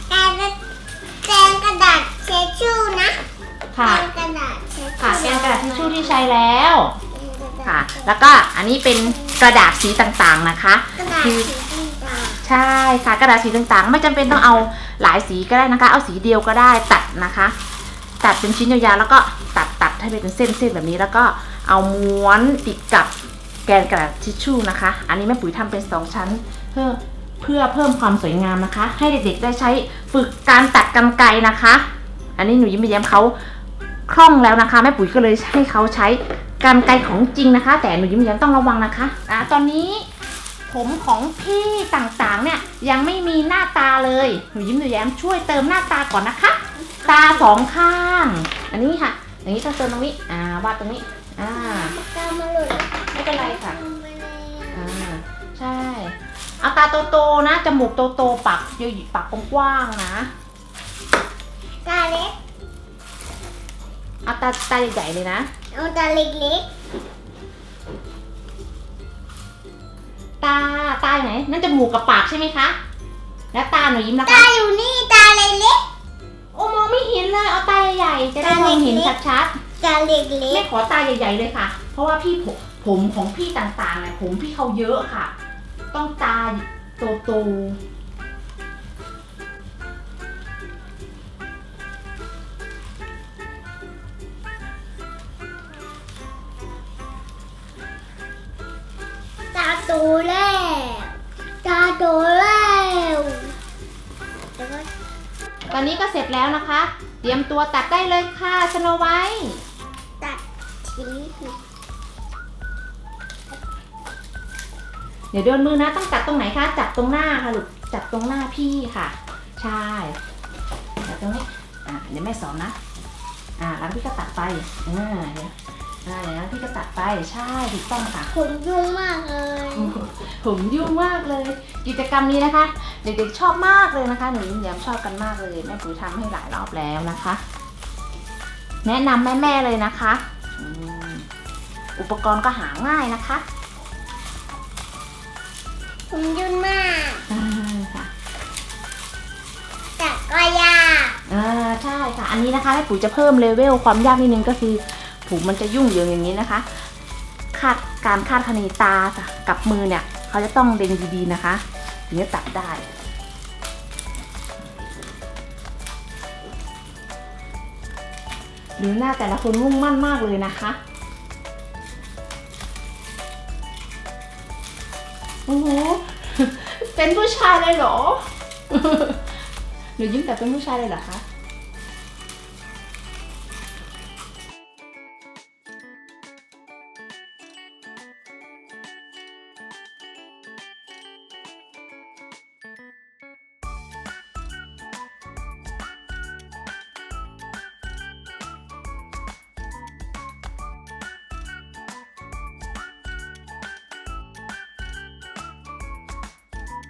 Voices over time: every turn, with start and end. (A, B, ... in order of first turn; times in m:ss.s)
0:00.1-0:00.6 A
0:01.2-0:03.2 A
0:03.7-0:04.1 B
0:03.8-0:06.3 A
0:05.0-0:07.0 B
0:07.1-0:08.2 A
0:07.6-0:11.5 B
0:09.0-0:09.5 A
0:11.0-0:12.4 A
0:12.4-0:17.6 B
0:18.2-0:23.1 B
0:23.7-0:31.8 B
0:32.4-0:33.4 B
0:34.1-0:40.1 B
0:40.7-0:52.0 B
0:47.0-0:47.6 A
0:51.5-0:54.9 A
0:53.1-0:53.8 B
0:54.7-1:00.3 B
1:01.8-1:02.4 A
1:04.2-1:05.5 B
1:05.7-1:06.7 A
1:10.4-1:12.8 B
1:13.5-1:14.5 B
1:14.2-1:15.8 A
1:16.5-1:19.6 B
1:18.4-1:19.2 A
1:19.8-1:20.7 A
1:20.5-1:25.3 B
1:25.9-1:27.8 B
1:39.5-1:43.5 A
1:44.6-1:44.9 A
1:45.7-1:49.6 B
1:50.2-1:51.6 A
1:55.3-2:00.2 B
2:01.0-2:02.8 B
2:03.6-2:08.3 B
2:08.3-2:10.0 A
2:09.7-2:17.4 B
2:18.8-2:21.3 B
2:22.0-2:23.4 B
2:26.1-2:27.2 A
2:27.3-2:28.1 B
2:30.0-2:31.2 A
2:31.3-2:36.8 B
2:37.5-2:42.8 B
2:48.8-2:50.8 B
2:55.5-2:59.4 B
3:00.0-3:01.2 B